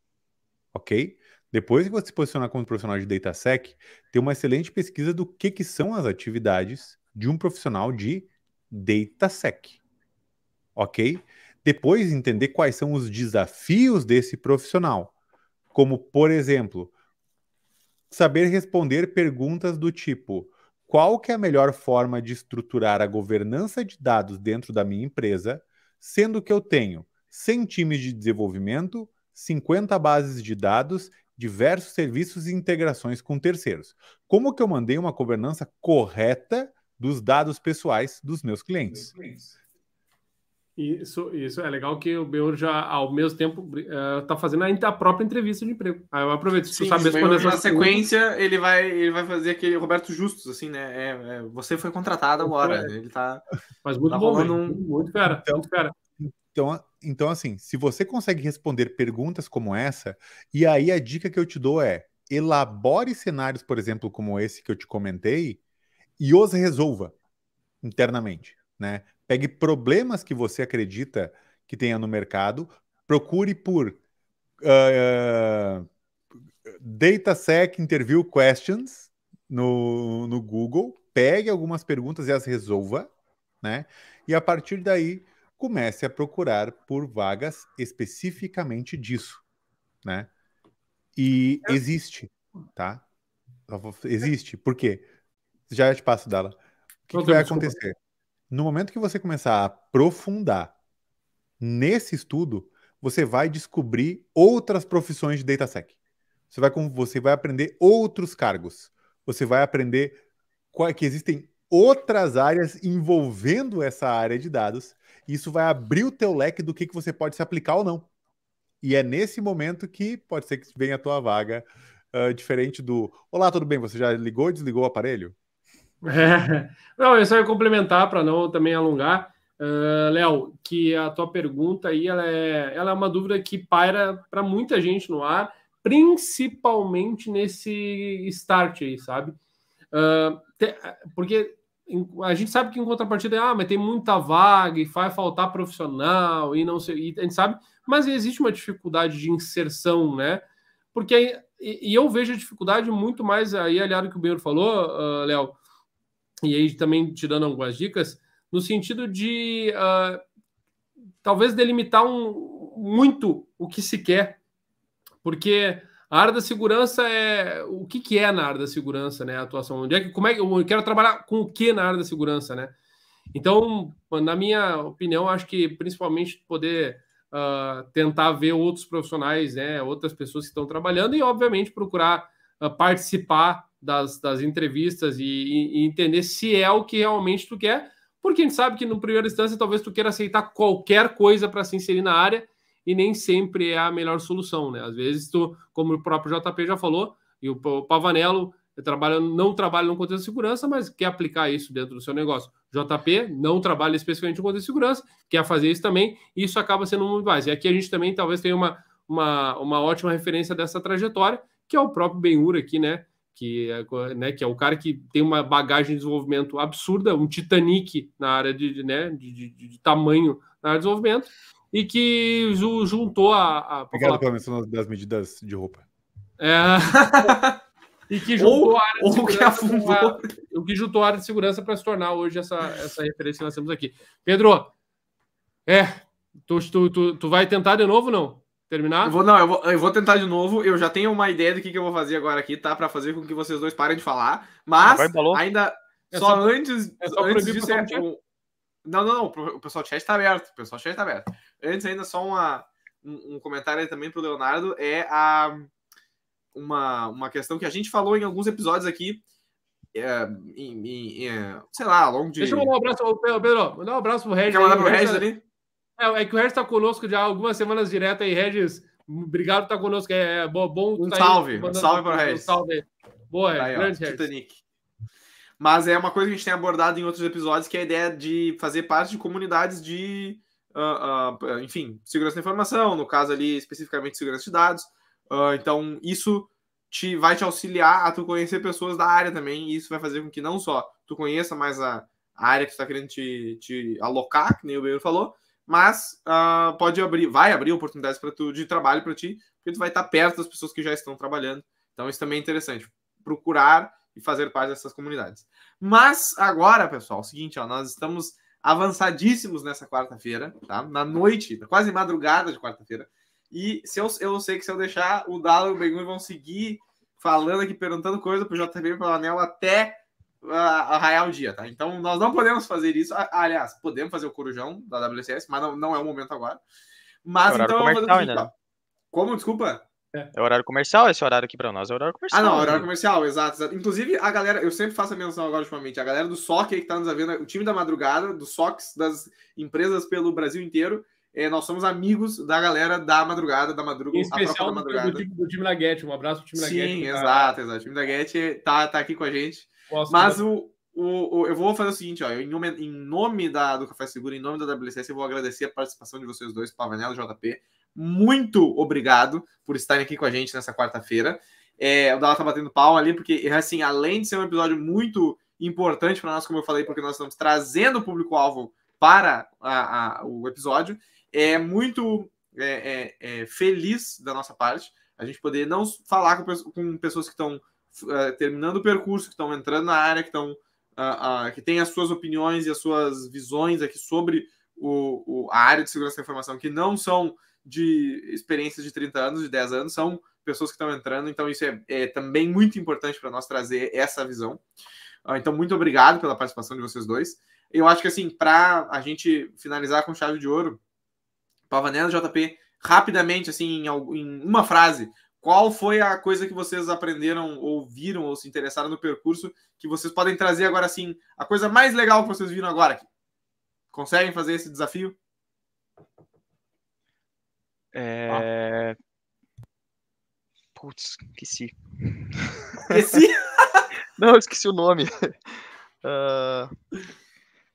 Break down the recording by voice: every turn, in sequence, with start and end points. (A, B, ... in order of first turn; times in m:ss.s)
0:00.7-0:09.8 A
0:10.8-0:15.1 A
0:15.7-0:16.9 A
0:18.1-0:39.4 A
0:40.8-0:48.0 B
0:46.7-0:53.4 C
0:52.4-0:52.9 B
0:53.8-0:55.9 B
0:54.1-0:54.8 C
0:56.2-1:05.6 A
1:06.2-1:07.2 A
1:07.8-1:14.0 A
1:14.6-1:15.9 A
1:16.6-1:23.1 A
1:23.6-1:29.4 A
1:30.0-1:30.3 A
1:31.2-1:33.0 A
1:33.7-1:35.1 A
1:35.7-1:36.6 A
1:37.1-1:37.9 A
1:37.1-1:37.7 B
1:38.5-1:40.7 A
1:41.6-1:45.9 A
1:46.5-1:50.2 A
1:50.7-1:58.1 A
1:58.8-2:05.4 A
2:06.0-2:19.4 B
2:19.9-2:35.6 B
2:36.4-2:40.2 B
2:41.2-2:44.4 B
2:45.2-2:52.7 B
2:53.3-3:44.2 B
3:43.9-3:45.8 A
3:46.4-3:47.4 B
3:46.9-3:47.6 C
3:48.1-3:54.7 B
3:48.4-3:50.3 C
3:55.6-3:59.2 B
3:59.0-4:08.2 C
4:04.8-4:05.4 D
4:06.1-4:08.0 B
4:08.8-4:15.7 C
4:16.5-4:19.2 C
4:19.9-4:22.7 C
4:22.4-4:25.3 B
4:24.4-4:25.4 C
4:26.0-4:34.3 B
4:31.0-4:32.6 C
4:33.6-4:34.6 C
4:35.6-5:26.6 C
5:27.2-5:28.5 C
5:27.4-5:28.5 D
5:29.1-5:29.8 C
5:30.3-5:32.9 D
5:32.3-5:45.2 C
5:32.6-5:32.9 B
5:44.1-5:47.6 B
5:46.5-6:34.6 C
5:49.9-5:50.4 B
6:35.2-6:40.8 C
6:41.7-6:53.1 C
6:53.9-6:55.2 C
6:57.9-6:59.0 D
7:00.8-7:03.0 D
7:02.9-7:03.8 C
7:04.2-7:06.7 D